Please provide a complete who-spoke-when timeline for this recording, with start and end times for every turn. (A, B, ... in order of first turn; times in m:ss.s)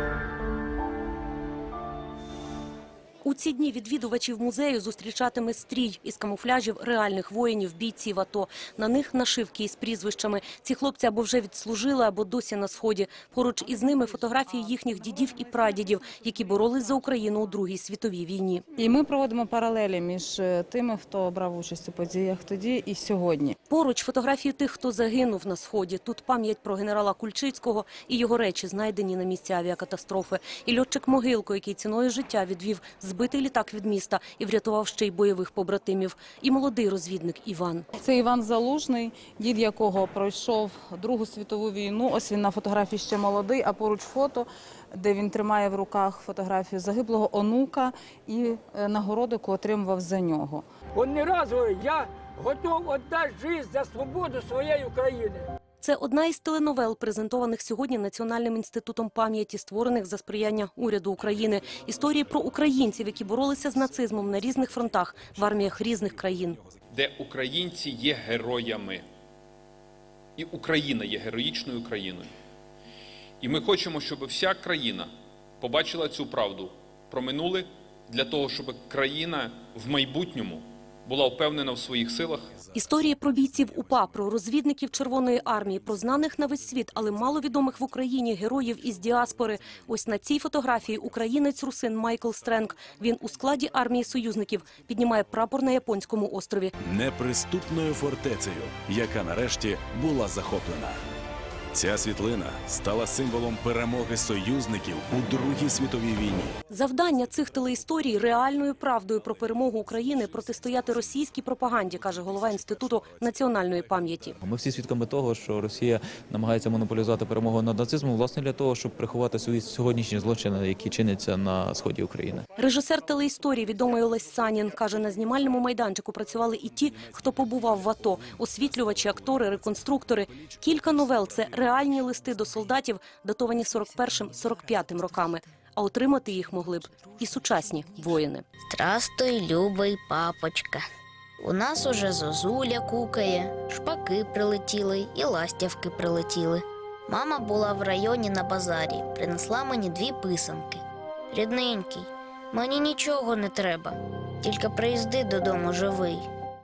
0:03.2-0:18.6 A
0:18.8-0:23.6 B
0:23.7-0:37.8 A
0:38.0-0:50.6 B
0:51.0-0:55.4 C
0:55.8-1:06.6 A
1:06.9-1:09.0 D
1:10.4-1:12.3 D
1:13.4-1:22.5 D
1:22.7-1:36.7 A
1:36.8-1:41.0 E
1:41.7-1:46.6 E
1:46.7-1:54.4 A
1:52.3-1:52.8 E
1:54.4-2:02.4 F
2:02.6-2:18.4 A
2:18.7-2:20.8 G
2:21.4-2:36.2 G